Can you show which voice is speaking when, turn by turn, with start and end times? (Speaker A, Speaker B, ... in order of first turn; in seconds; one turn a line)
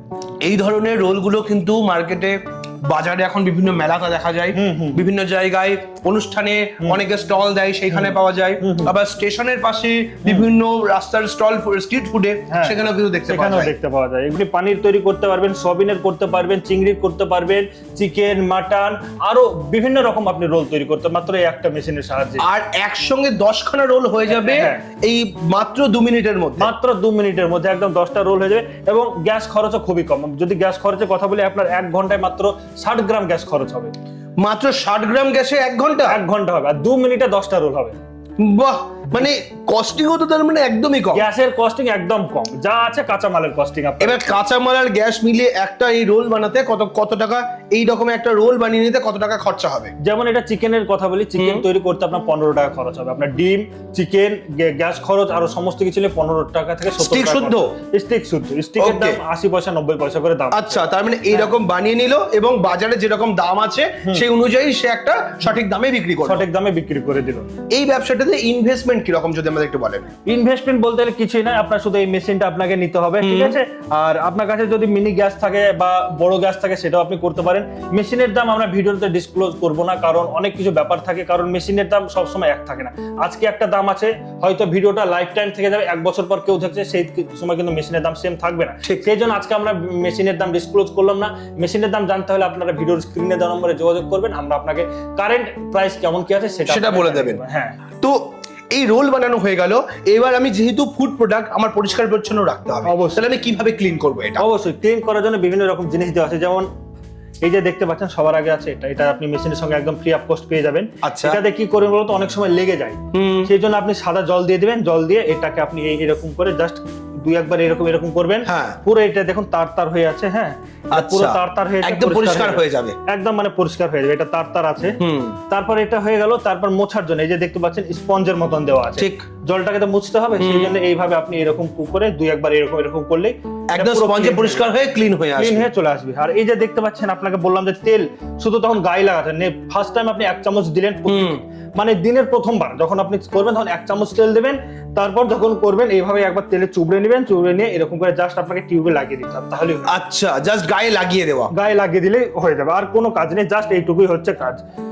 Speaker A: 0.4-13.8
Speaker B: 4.5-5.0
Speaker B: 7.9-8.9
Speaker B: 12.5-22.4
Speaker A: 22.4-26.7
Speaker B: 24.3-24.8
Speaker B: 26.6-33.9
Speaker A: 34.4-36.2
Speaker B: 36.1-38.0
Speaker A: 38.4-41.3
Speaker B: 41.1-44.4
Speaker A: 44.0-49.9
Speaker B: 50.0-61.5
Speaker A: 51.4-51.6
Speaker A: 57.0-57.7
Speaker A: 58.8-59.2
Speaker A: 60.5-66.5
Speaker B: 66.2-67.5
Speaker A: 67.7-70.1
Speaker B: 70.3-97.8
Speaker A: 73.2-73.6
Speaker A: 88.8-89.1
Speaker A: 96.7-97.4
Speaker A: 98.0-104.4
Speaker B: 102.8-103.2
Speaker B: 104.4-106.7
Speaker B: 107.4-125.0
Speaker A: 111.0-111.4
Speaker A: 113.1-113.5
Speaker A: 118.5-118.8
Speaker A: 120.9-123.0
Speaker A: 125.0-125.4
Speaker B: 125.5-134.7
Speaker A: 129.0-129.2
Speaker A: 130.4-130.7
Speaker A: 133.7-135.7
Speaker B: 135.4-149.9
Speaker A: 141.1-141.4
Speaker A: 149.9-151.5
Speaker B: 151.5-154.6